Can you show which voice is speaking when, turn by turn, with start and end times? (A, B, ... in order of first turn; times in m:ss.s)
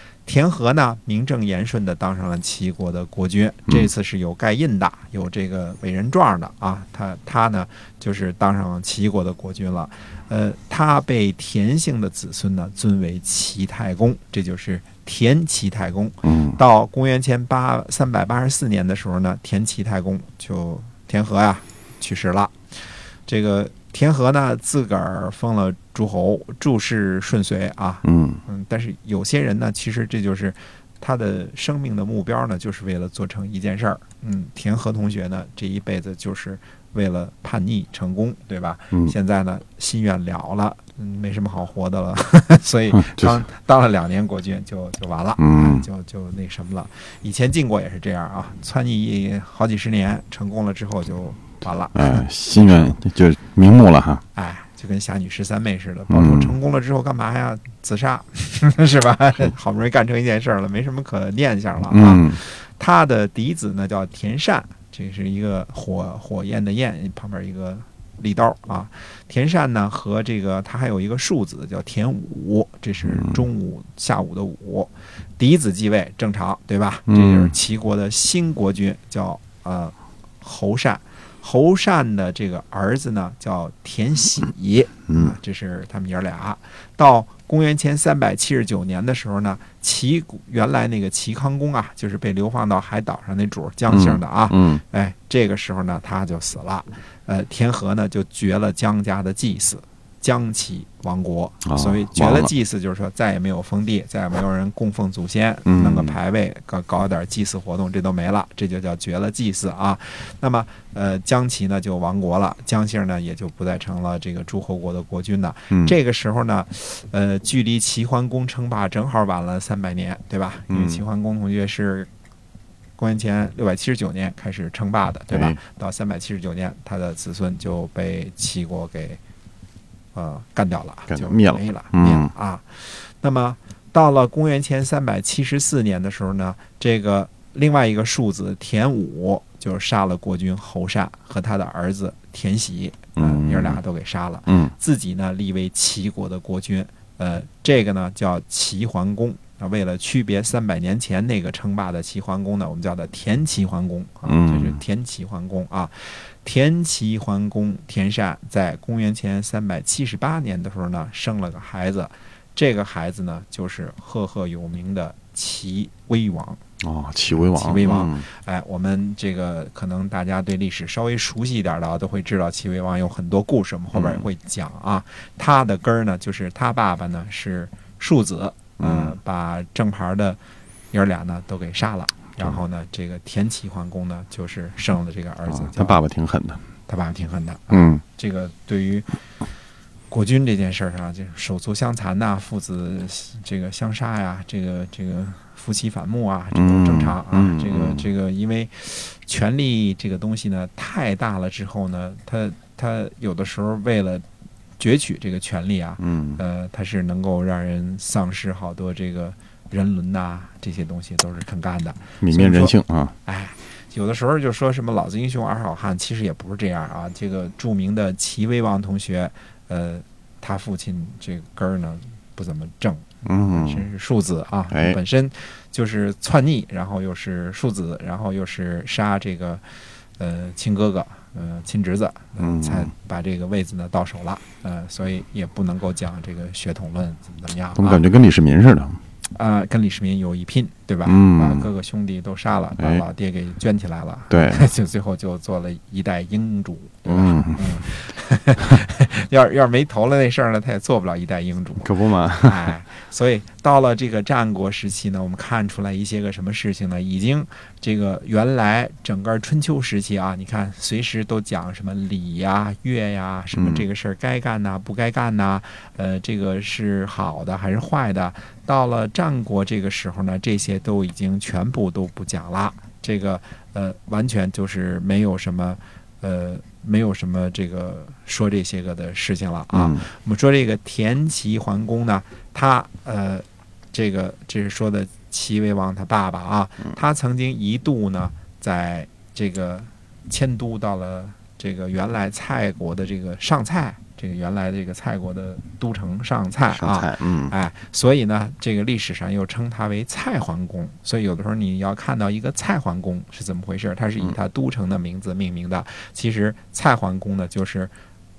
0:00.2-0:53.0 A
0:16.2-0:16.6 B
0:28.0-0:28.4 B
0:42.9-0:43.4 B
0:45.4-0:45.9 B
0:51.9-0:54.2 B
0:54.3-2:02.1 A
0:56.1-0:56.5 B
1:01.9-1:02.4 B
1:13.0-1:13.4 B
1:17.1-1:17.5 B
1:25.1-1:25.4 B
1:33.9-1:34.8 B
1:41.6-1:42.5 B
1:45.7-1:46.2 B
1:55.7-1:56.0 B
2:00.7-2:01.0 B
2:03.0-2:09.2 A
2:05.3-2:05.6 B
2:10.1-2:46.6 A
2:11.1-2:12.3 B
2:23.2-2:23.8 B
2:24.5-2:24.7 B
2:34.2-2:34.8 B
2:46.8-2:48.3 B
2:47.5-3:00.4 A
2:53.9-2:54.2 B
2:58.8-2:59.2 B
3:00.9-3:06.0 A
3:05.5-3:06.6 B
3:06.9-3:09.2 A
3:07.7-3:08.0 B
3:10.1-3:24.2 A
3:16.5-3:18.1 B
3:24.8-3:49.6 A
3:26.0-3:26.4 B
3:32.2-3:33.1 B
3:43.3-3:43.8 B
3:44.7-3:45.0 B
3:50.2-3:58.0 A
3:52.4-3:52.9 B
3:57.8-3:59.0 B
3:59.3-5:07.9 A
4:01.0-4:01.7 B
4:04.3-4:04.6 B
4:07.1-4:07.7 B
4:11.8-4:12.7 B
4:23.5-4:23.9 B
4:39.7-4:40.0 B
4:56.7-4:57.6 B